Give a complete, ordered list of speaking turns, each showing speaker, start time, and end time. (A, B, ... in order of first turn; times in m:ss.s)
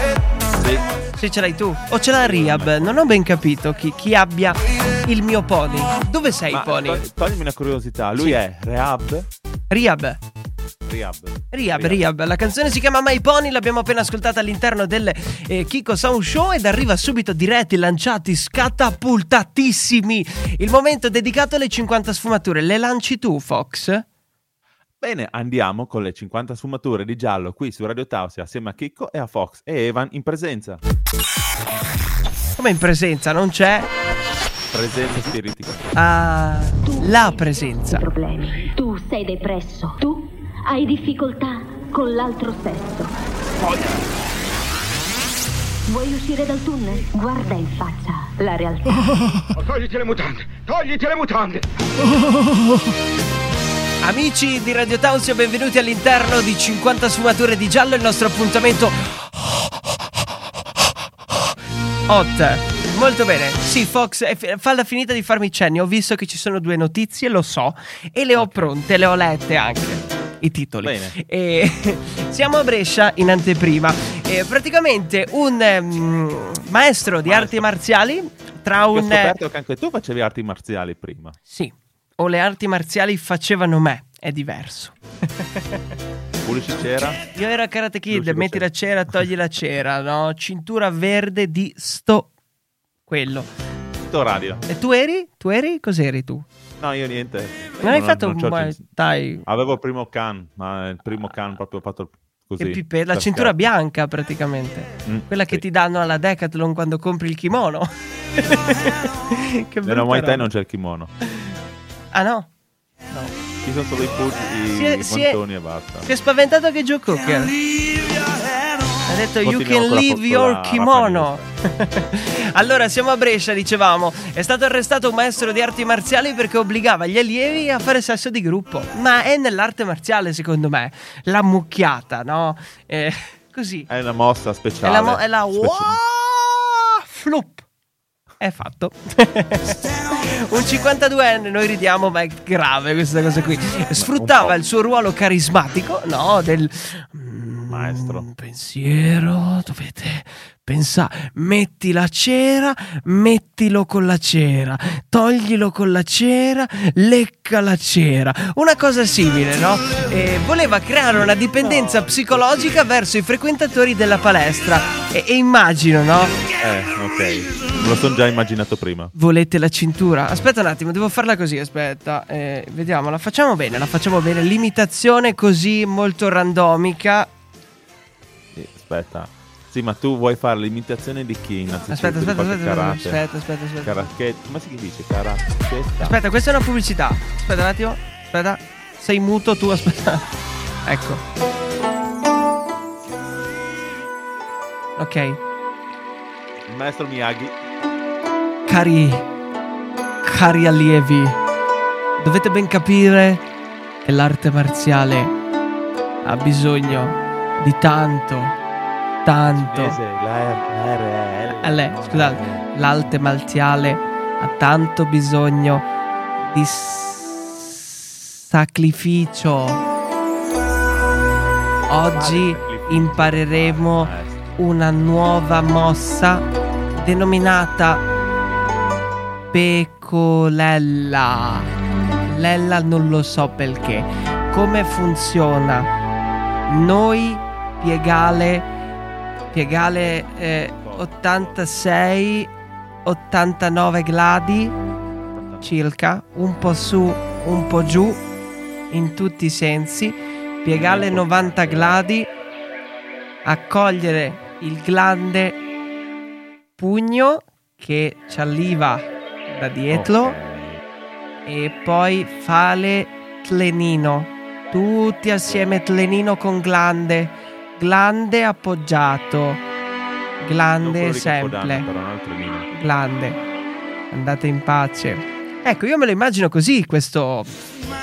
0:00.5-0:00.9 A
0:01.2-0:07.0 B
0:02.2-0:03.0 A
0:06.5-0:09.3 A
0:09.7-0:10.2 B
0:10.8-0:12.0 A
0:11.5-0:24.0 B
0:25.0-0:30.8 A
0:32.6-0:33.9 B
0:34.7-0:35.9 A
0:35.9-0:38.0 B
0:36.8-0:43.1 C
0:45.9-0:49.5 C
0:49.6-0:51.8 D
0:54.0-0:59.2 B
1:02.1-1:19.3 B
1:08.4-1:08.7 A
1:10.8-1:11.1 A
1:17.2-1:17.7 A
1:18.9-1:21.4 A
1:21.5-1:25.8 B
1:26.4-1:27.2 A
1:27.0-1:32.3 B
1:28.1-1:28.7 A
1:33.1-1:33.5 B
1:34.0-1:34.6 A
1:34.7-1:36.4 B
1:36.8-1:38.8 A
1:37.8-1:39.4 B
1:39.4-1:43.6 A
1:42.6-1:50.5 B
1:45.0-1:45.6 A
1:49.8-1:51.1 A
1:52.1-1:52.5 B
1:53.6-1:56.1 A
1:54.7-1:55.4 B
1:56.0-1:57.6 B
1:59.0-2:13.9 B
1:59.4-2:01.4 A
2:13.9-2:16.0 A
2:14.8-2:17.6 B
2:18.4-2:46.4 B
2:24.0-2:24.5 A
2:27.7-2:28.3 A
2:41.2-2:42.8 A
2:46.6-2:49.1 A
2:49.1-2:57.3 B
2:58.5-3:03.2 A
3:01.9-3:04.1 B
3:03.8-3:06.2 A
3:06.0-3:10.3 B
3:10.8-3:11.2 B
3:15.0-3:15.4 B
3:16.7-3:17.5 A
3:18.7-3:19.2 B
3:20.2-3:21.4 B
3:22.2-3:23.4 B
3:24.0-3:25.3 B
3:26.2-3:28.6 B
3:29.2-3:30.0 B
3:29.5-3:32.6 A
3:31.6-3:35.8 B
3:36.4-3:39.8 B
3:41.9-3:46.4 B
3:42.1-3:44.6 A
3:47.0-3:48.0 B
3:49.5-3:51.7 B
3:52.3-3:55.9 B
3:56.7-3:58.7 B
3:59.5-4:02.5 B
4:00.7-4:01.7 A
4:03.0-4:04.7 B
4:05.4-4:05.7 A
4:05.6-4:08.2 B
4:08.9-4:12.3 B
4:10.7-4:12.0 A
4:13.4-4:15.6 B
4:16.8-4:20.4 B
4:19.9-4:20.8 A
4:21.4-4:29.6 B
4:30.4-4:31.8 B
4:30.8-4:32.7 A
4:32.7-4:33.4 B
4:34.1-4:37.6 B